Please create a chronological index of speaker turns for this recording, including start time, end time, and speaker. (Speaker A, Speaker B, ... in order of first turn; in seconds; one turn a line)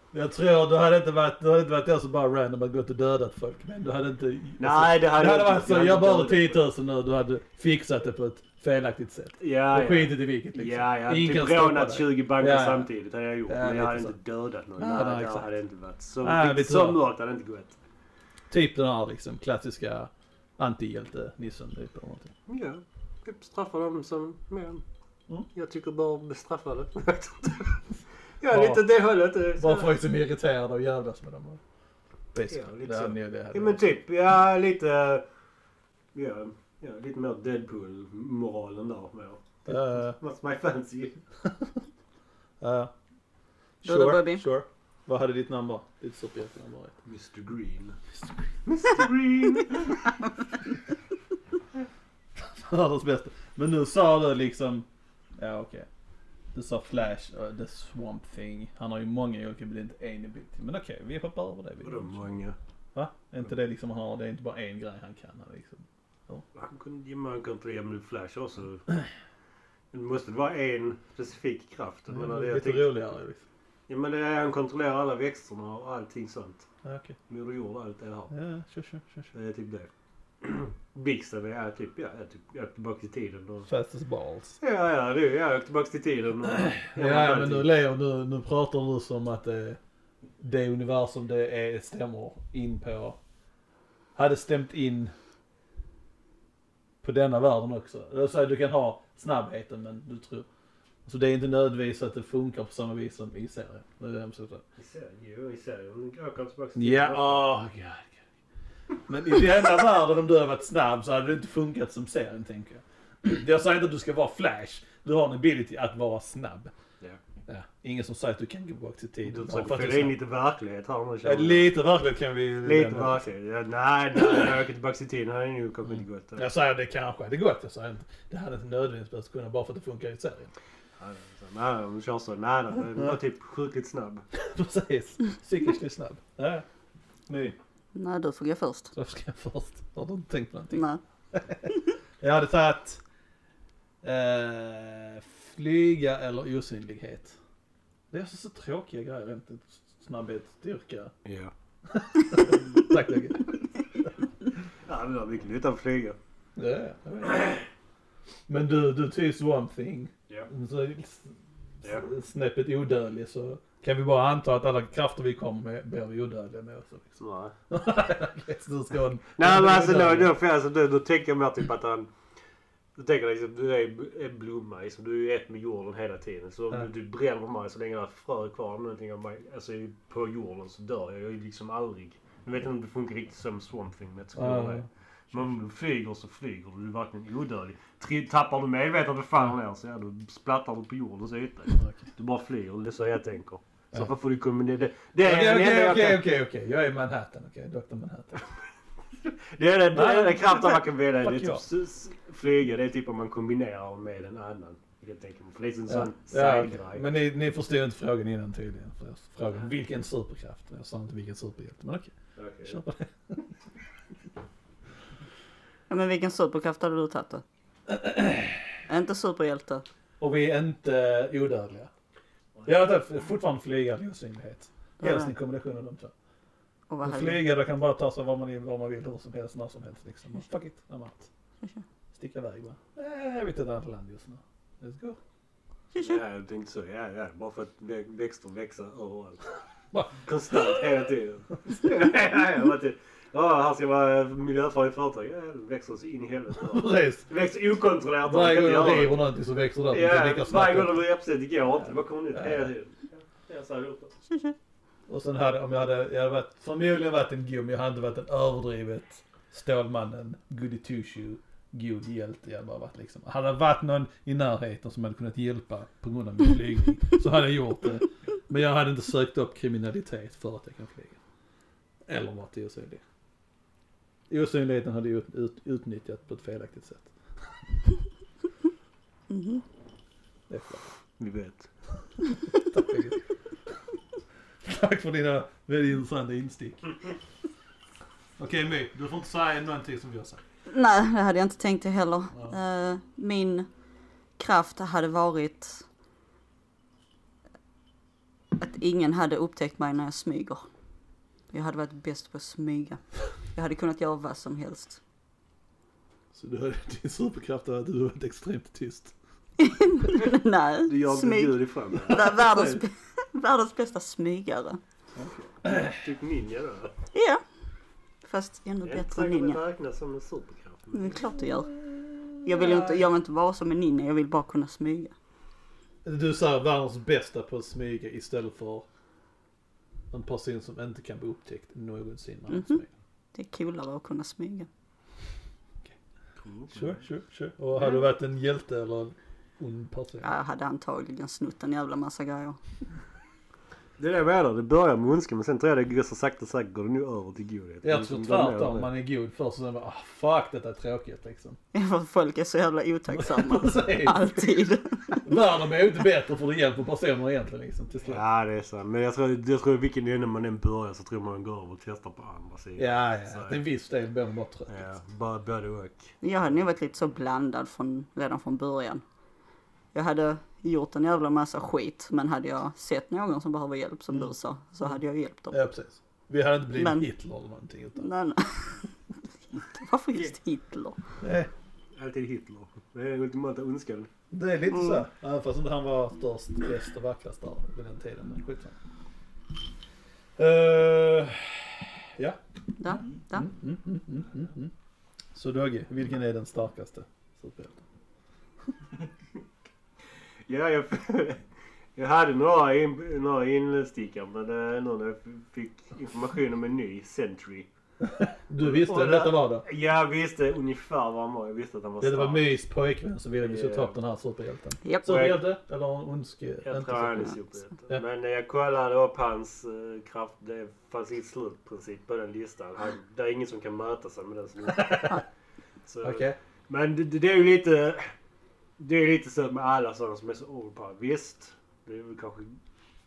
Speaker A: 0.1-12.9
Speaker B: 4.6-6.6
Speaker B: 9.4-17.8
Speaker A: 13.5-14.1
Speaker A: 14.8-15.5
Speaker A: 16.2-17.0
Speaker A: 18.5-22.3
Speaker B: 22.5-24.8
Speaker B: 25.5-27.9
Speaker B: 28.4-29.9
Speaker A: 28.5-28.8
Speaker A: 29.6-31.6
Speaker A: 32.3-33.8
Speaker B: 32.5-35.2
Speaker B: 36.1-41.2
Speaker A: 39.6-40.2
Speaker A: 42.6-42.9
Speaker A: 43.8-46.9
Speaker C: 43.8-44.4
Speaker B: 47.0-48.0
Speaker B: 48.6-50.1
Speaker A: 52.4-54.9
Speaker A: 55.4-55.9
Speaker A: 56.5-62.2
Speaker B: 61.8-62.6
Speaker A: 62.9-66.4
Speaker B: 66.5-68.8
Speaker B: 69.9-72.9
Speaker A: 72.1-73.4
Speaker B: 73.9-76.7
Speaker A: 76.8-77.2
Speaker B: 77.3-78.3
Speaker A: 78.3-79.3
Speaker B: 79.3-79.9
Speaker B: 80.4-83.7
Speaker A: 83.7-84.6
Speaker B: 84.6-87.7
Speaker A: 86.4-89.8
Speaker A: 90.4-93.2
Speaker A: 94.2-95.1
Speaker A: 97.0-100.5
Speaker A: 101.0-104.6
Speaker B: 104.8-107.5
Speaker A: 106.8-108.2
Speaker A: 109.1-116.7
Speaker A: 117.5-120.1
Speaker B: 119.2-121.7
Speaker A: 121.2-123.3
Speaker B: 122.6-126.4
Speaker A: 126.4-130.5
Speaker B: 131.0-134.2
Speaker A: 134.3-136.7
Speaker A: 137.3-137.6
Speaker C: 137.9-138.9
Speaker A: 138.9-143.0
Speaker C: 140.7-141.0
Speaker A: 144.0-147.3
Speaker A: 148.1-151.1
Speaker B: 151.2-151.5
Speaker A: 151.9-154.1
Speaker B: 154.8-156.2
Speaker A: 156.6-157.6
Speaker A: 158.5-167.1
Speaker B: 167.2-167.5
Speaker A: 167.7-170.3
Speaker B: 169.4-172.1
Speaker B: 172.9-196.2
Speaker A: 184.3-184.8
Speaker A: 191.8-192.1
Speaker A: 195.2-198.4
Speaker B: 199.3-207.1
Speaker A: 199.9-201.6
Speaker A: 205.9-212.1
Speaker B: 212.3-212.8
Speaker A: 212.6-213.4
Speaker C: 215.9-217.4
Speaker A: 217.9-218.7
Speaker C: 218.9-219.8
Speaker A: 220.2-221.9
Speaker A: 222.6-226.1
Speaker C: 225.0-225.3
Speaker C: 226.9-227.4
Speaker A: 227.0-231.3
Speaker A: 232.1-235.2
Speaker C: 235.9-236.2
Speaker B: 235.9-239.5
Speaker B: 240.1-249.2
Speaker A: 246.6-247.2
Speaker A: 248.2-251.0
Speaker B: 249.9-254.1
Speaker A: 252.3-252.7
Speaker A: 255.1-271.1
Speaker A: 272.1-273.0
Speaker A: 274.3-277.1
Speaker C: 279.3-279.6
Speaker A: 280.5-280.9
Speaker B: 281.2-281.7
Speaker A: 282.5-283.2
Speaker A: 284.6-287.0
Speaker A: 288.4-290.4
Speaker C: 290.7-293.7
Speaker C: 294.4-295.9
Speaker C: 298.6-300.6
Speaker C: 301.5-303.0
Speaker C: 303.5-305.0
Speaker A: 306.3-309.1
Speaker C: 309.6-314.8
Speaker B: 310.9-312.3
Speaker A: 312.1-312.8
Speaker A: 315.1-316.0
Speaker B: 315.9-316.9
Speaker C: 317.1-317.4
Speaker C: 318.2-319.6
Speaker B: 318.8-321.2
Speaker C: 320.9-321.8
Speaker A: 321.4-323.1
Speaker C: 322.4-325.1
Speaker A: 326.0-328.9
Speaker A: 330.1-332.9
Speaker C: 332.5-332.8
Speaker C: 333.3-334.7
Speaker B: 336.4-337.0
Speaker A: 336.7-340.3
Speaker C: 340.2-342.6
Speaker B: 344.0-348.9
Speaker A: 347.8-351.6
Speaker C: 351.7-355.2
Speaker A: 353.1-354.5
Speaker A: 355.2-358.2
Speaker B: 358.0-363.6
Speaker A: 362.8-364.9
Speaker B: 364.7-366.1
Speaker C: 366.2-369.0
Speaker C: 369.9-375.6
Speaker A: 375.5-378.1
Speaker C: 376.7-377.0
Speaker C: 378.0-378.8
Speaker C: 379.6-381.0
Speaker A: 381.2-381.5
Speaker B: 381.9-384.1
Speaker A: 384.3-388.8
Speaker C: 384.7-385.0
Speaker A: 390.4-394.7
Speaker C: 392.8-393.5
Speaker A: 395.3-397.8
Speaker B: 400.5-401.4
Speaker B: 401.9-407.7
Speaker A: 408.0-409.6
Speaker B: 408.6-412.5
Speaker A: 412.0-417.4
Speaker B: 413.4-413.9
Speaker C: 414.8-415.1
Speaker B: 415.1-415.4
Speaker B: 416.6-425.2
Speaker A: 424.7-425.2
Speaker B: 425.9-428.1
Speaker A: 426.0-426.4
Speaker B: 428.8-432.6